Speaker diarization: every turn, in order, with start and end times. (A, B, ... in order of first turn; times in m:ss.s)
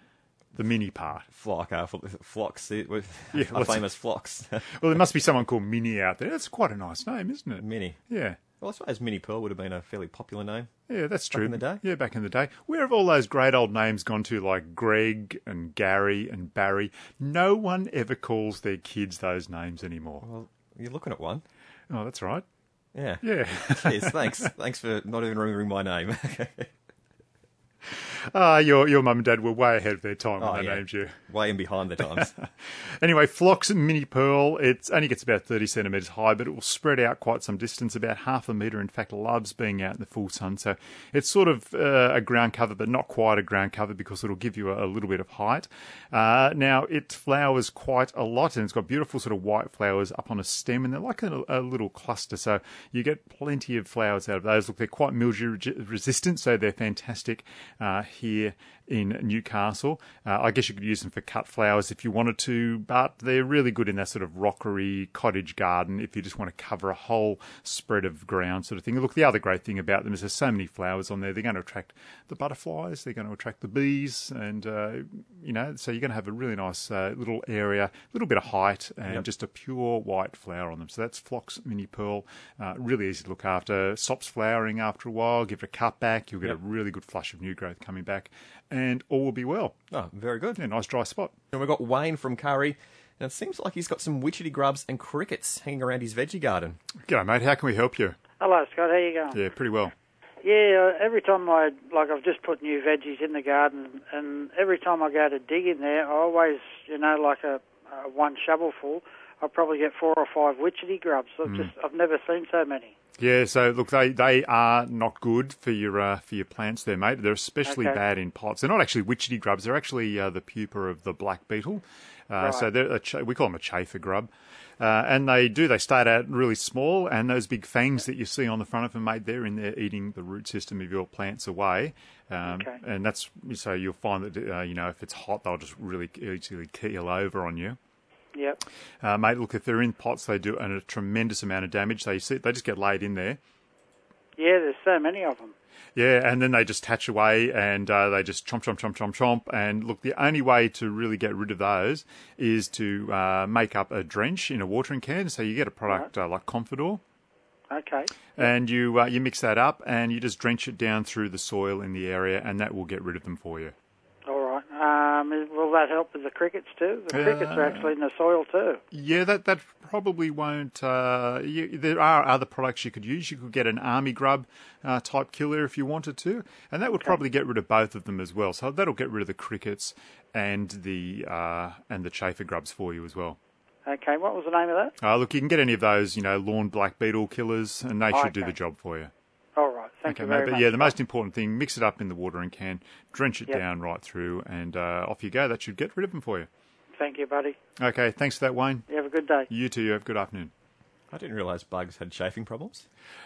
0:00.5-0:01.3 A
0:01.3-0:04.7 B
0:03.3-0:03.9 A
0:04.7-0:08.4 A
0:07.6-0:08.0 B
0:08.6-0:10.7 B
0:10.9-0:20.2 A
0:11.3-0:11.8 B
0:20.2-0:21.4 B
0:21.9-0:22.4 A
0:22.9-0:26.7 B
0:23.2-0:24.5 A
0:27.9-0:31.2 A
0:30.4-0:32.3 B
0:32.1-1:29.8 A
1:29.9-1:30.6 B
1:30.6-1:31.3 A
1:31.5-1:36.8 B
1:37.0-1:38.2 A
1:38.4-1:39.4 C
1:39.3-1:39.9 A
1:40.4-1:52.9 C
1:51.4-1:51.7 A
1:53.2-2:17.8 A
1:57.6-1:58.0 C
2:02.4-2:02.6 C
2:12.4-2:12.8 C
2:18.3-2:18.6 C
2:19.0-2:23.4 A
2:24.4-2:25.5 C
2:26.0-2:37.0 A
2:37.7-2:38.5 C
2:38.4-2:43.7 A
2:44.2-2:48.8 C
2:47.1-2:47.9 A
2:48.9-3:03.4 A
3:03.8-3:04.9 C
3:05.0-3:09.1 A
3:08.1-3:08.5 C
3:09.6-3:11.0 C
3:10.0-3:16.5 A
3:17.0-3:17.6 C
3:17.8-3:18.9 A
3:18.9-3:19.5 C
3:19.5-3:20.5 A
3:21.1-3:22.8 B